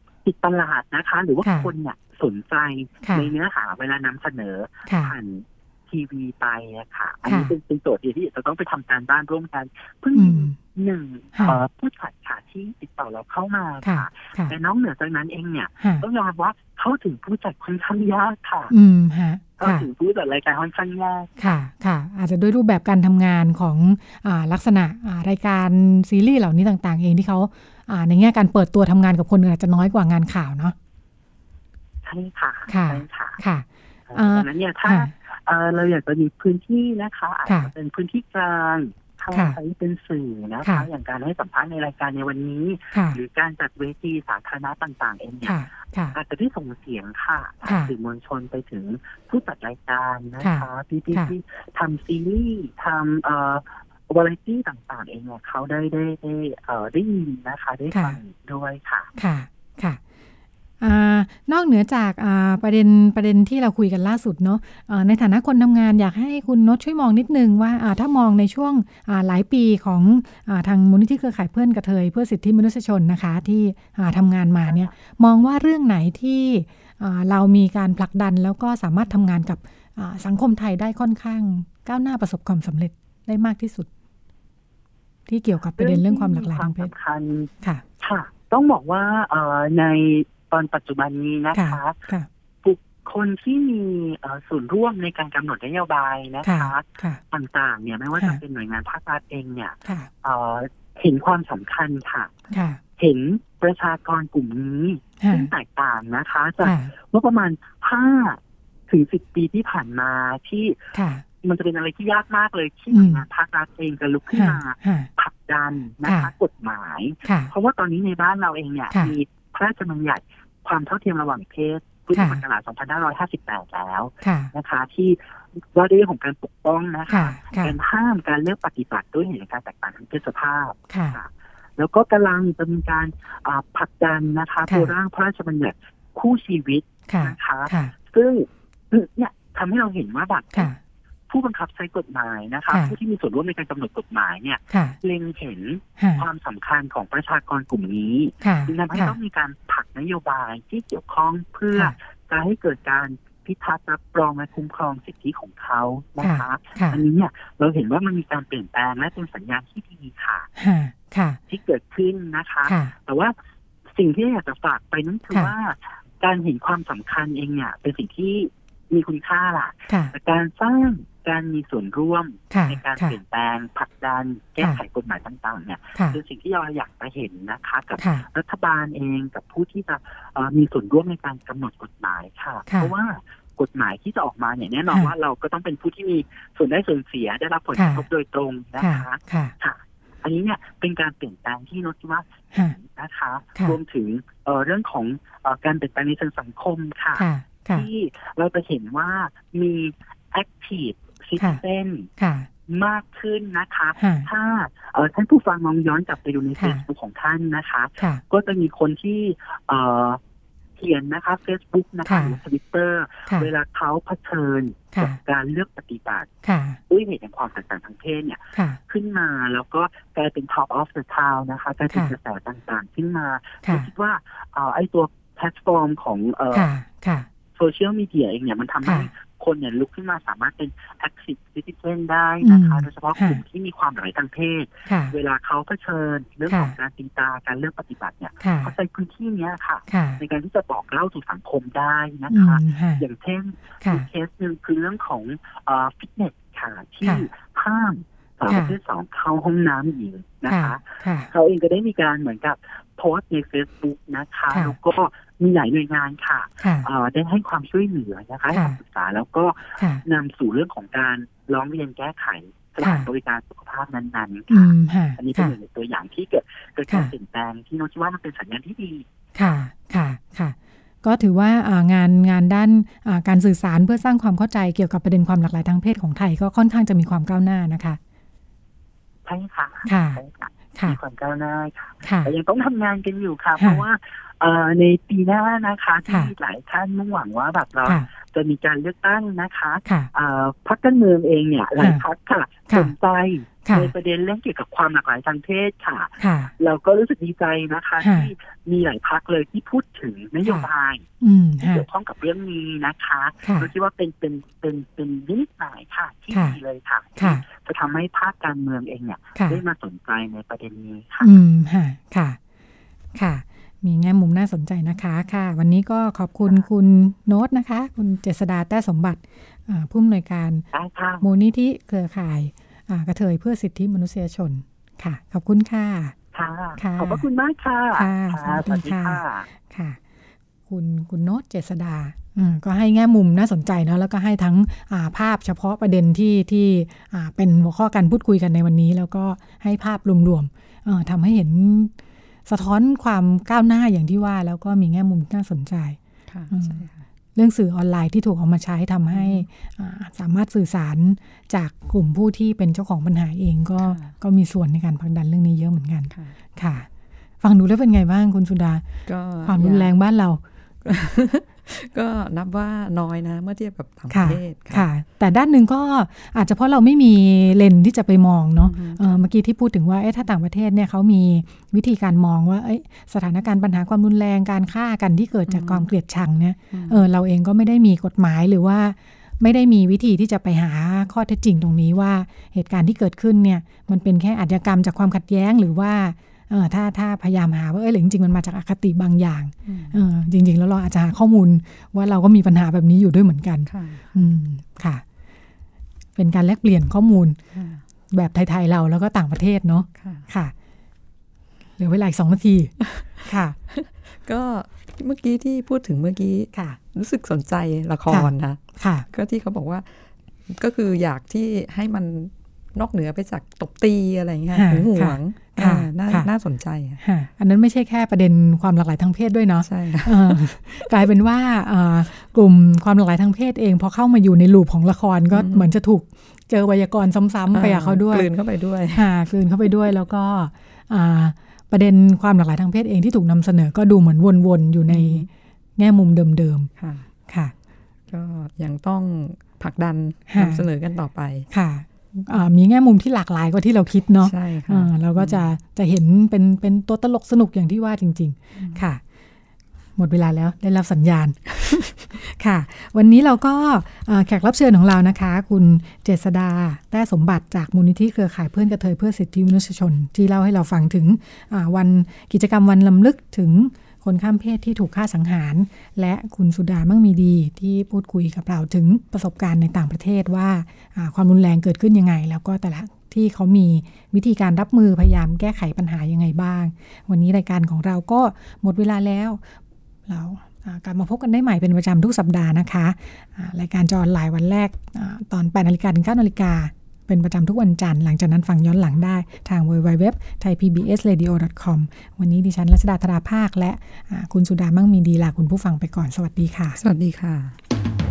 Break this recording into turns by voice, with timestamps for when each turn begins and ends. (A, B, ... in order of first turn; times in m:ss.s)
0:00.2-0:18.7 A
0:01.4-0:01.7 B
0:04.9-0:05.1 B
0:07.3-0:07.5 B
0:10.1-0:10.6 B
0:13.8-0:14.5 B
0:18.7-0:19.8 B
0:19.6-0:21.3 A
0:21.4-0:30.7 B
0:32.0-0:33.4 A
0:32.7-0:35.1 B
0:34.1-0:59.1 A
0:45.4-0:46.1 B
0:50.4-0:51.3 B
0:59.2-1:00.0 B
1:00.8-1:23.9 B
1:14.6-1:15.0 A
1:25.3-1:26.9 B
1:25.8-1:32.0 A
1:31.5-1:32.3 B
1:32.6-1:42.3 A
1:36.4-1:37.2 B
1:42.5-1:42.8 B
1:43.0-1:50.8 A
1:45.2-1:45.5 B
1:46.6-1:46.9 B
1:50.9-1:51.2 B
1:51.4-2:20.7 A
1:52.9-1:53.2 B
1:54.3-1:55.1 B
1:57.2-1:57.5 B
2:04.2-2:04.5 B
2:07.1-2:07.7 B
2:10.9-2:11.2 B
2:17.1-2:17.9 B
2:21.3-2:40.5 A
2:26.0-2:26.2 B
2:28.4-2:29.1 B
2:36.2-2:37.0 B
2:40.6-2:41.4 B
2:41.5-2:43.3 A
2:43.9-3:22.1 A
3:07.8-3:08.0 B
3:08.8-3:09.5 B
3:17.2-3:17.8 B
3:22.2-3:22.5 B
3:22.7-3:30.2 A
3:24.0-3:24.3 B
3:30.8-3:36.3 A
3:32.1-3:32.3 B
3:36.4-3:36.8 B
3:36.9-3:46.7 A
3:46.5-3:47.3 B
3:47.6-4:29.0 A
3:52.4-3:53.4 B
3:54.9-3:55.1 B
3:58.4-3:58.7 B
3:59.9-4:00.2 B
4:02.3-4:03.0 B
4:10.5-4:11.3 B
4:24.5-4:25.5 B
4:29.4-4:38.0 B
4:39.2-5:01.0 A
4:39.8-4:40.2 B
4:42.0-4:42.3 B
4:53.6-4:53.9 B
4:56.2-4:56.5 B
4:58.0-4:58.3 B
5:01.2-5:01.8 B
5:01.6-5:11.3 A
5:07.2-5:07.4 B
5:11.2-5:12.4 B
5:13.1-5:20.6 B
5:20.7-5:21.2 A
5:21.2-5:26.1 B
5:26.3-5:29.4 A
5:26.8-5:27.2 B
5:27.9-5:30.0 B
5:30.7-5:41.9 B
5:42.4-5:46.0 B
5:46.3-5:47.0 C
5:46.5-5:46.8 B
5:47.3-5:56.9 B
5:49.1-5:49.5 C
5:53.8-5:54.1 C
5:56.1-5:56.4 C
5:57.4-5:58.8 B
5:59.0-5:59.9 C
5:59.4-6:00.4 B
6:00.8-6:04.9 C
6:04.1-6:35.0 B
6:08.6-6:09.3 C
6:15.5-6:15.9 C
6:16.7-6:17.1 C
6:29.6-6:30.0 C
6:33.6-6:34.0 C
6:36.2-6:37.4 B
6:37.5-6:37.8 C
6:38.1-6:40.5 B
6:39.9-6:40.3 C
6:41.8-6:43.6 B
6:42.9-6:43.1 C
6:43.7-6:57.0 C
6:46.5-6:46.8 B
6:48.1-6:49.0 B
6:54.5-6:56.3 B
6:57.0-7:08.3 B
6:59.6-7:00.9 C
7:05.3-7:05.7 C
7:07.5-7:09.1 C
7:08.9-7:16.7 B
7:14.9-7:15.3 C
7:16.8-7:17.1 C
7:17.3-7:17.5 B
7:18.1-7:21.5 C
7:20.3-7:20.7 B
7:21.5-7:29.0 B
7:24.2-7:25.5 C
7:28.6-7:28.8 C
7:30.0-7:59.4 B
8:00.1-8:16.8 B
8:16.8-8:17.5 C